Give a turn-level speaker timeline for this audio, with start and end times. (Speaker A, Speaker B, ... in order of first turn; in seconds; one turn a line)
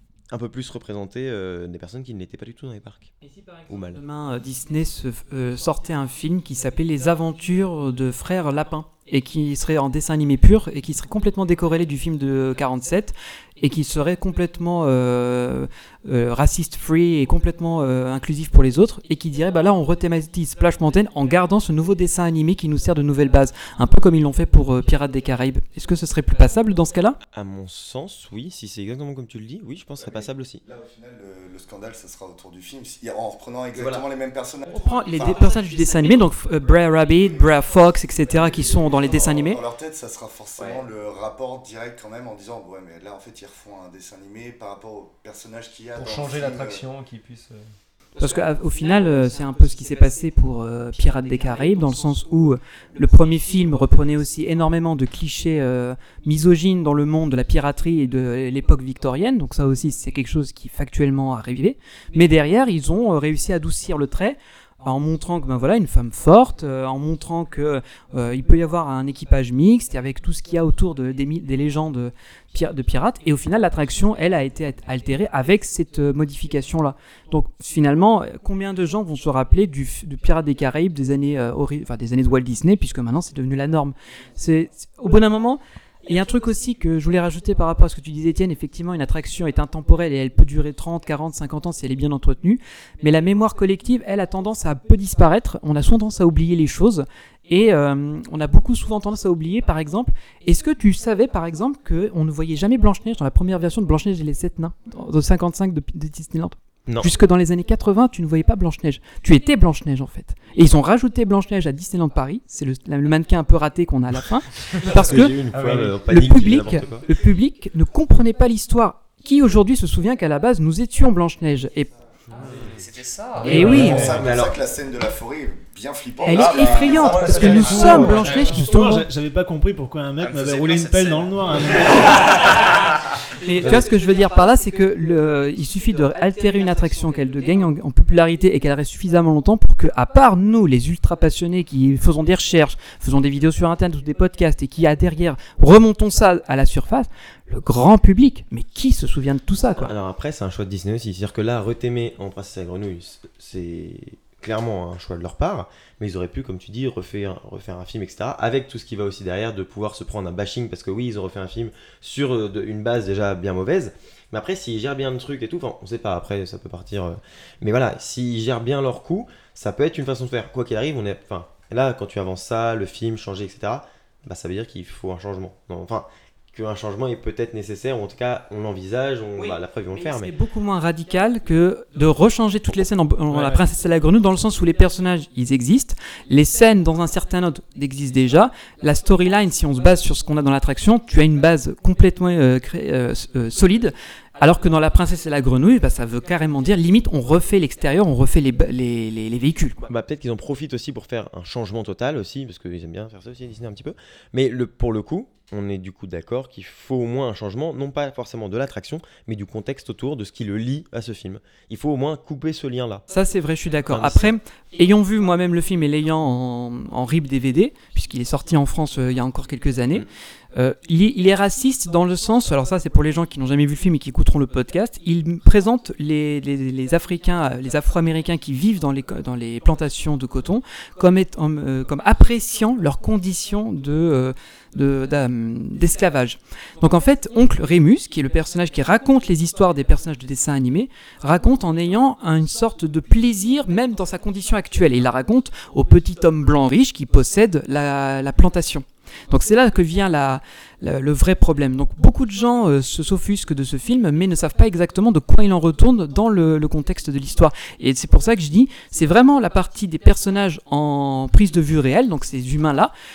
Speaker A: 0.3-3.1
Speaker B: 3.3-27.2
Speaker A: 3.7-4.0
Speaker A: 27.3-30.6
Speaker C: 30.0-35.6
Speaker A: 33.7-34.1
Speaker B: 34.7-39.6
Speaker A: 35.1-35.4
Speaker C: 37.2-46.9
Speaker A: 40.6-40.9
Speaker D: 46.0-47.7
Speaker B: 48.2-115.4
Speaker A: 106.9-107.2
Speaker A: 114.8-117.1
Speaker D: 115.5-116.0
Speaker B: 116.0-121.9
Speaker D: 122.3-122.8
Speaker E: 122.4-123.8
Speaker F: 123.4-124.1
Speaker D: 123.4-124.3
Speaker B: 123.5-124.1
Speaker C: 123.5-127.7
Speaker A: 123.7-124.6
Speaker B: 126.2-129.1
Speaker E: 126.3-128.5
Speaker D: 126.9-128.5
Speaker F: 127.4-132.2
Speaker E: 130.2-132.3
Speaker B: 133.4-149.9
Speaker A: 133.6-133.9
Speaker A: 149.8-180.3
Speaker B: 179.4-199.8
Speaker F: 183.3-183.6
Speaker A: 199.8-213.1
Speaker B: 213.1-262.9
Speaker A: 213.9-214.4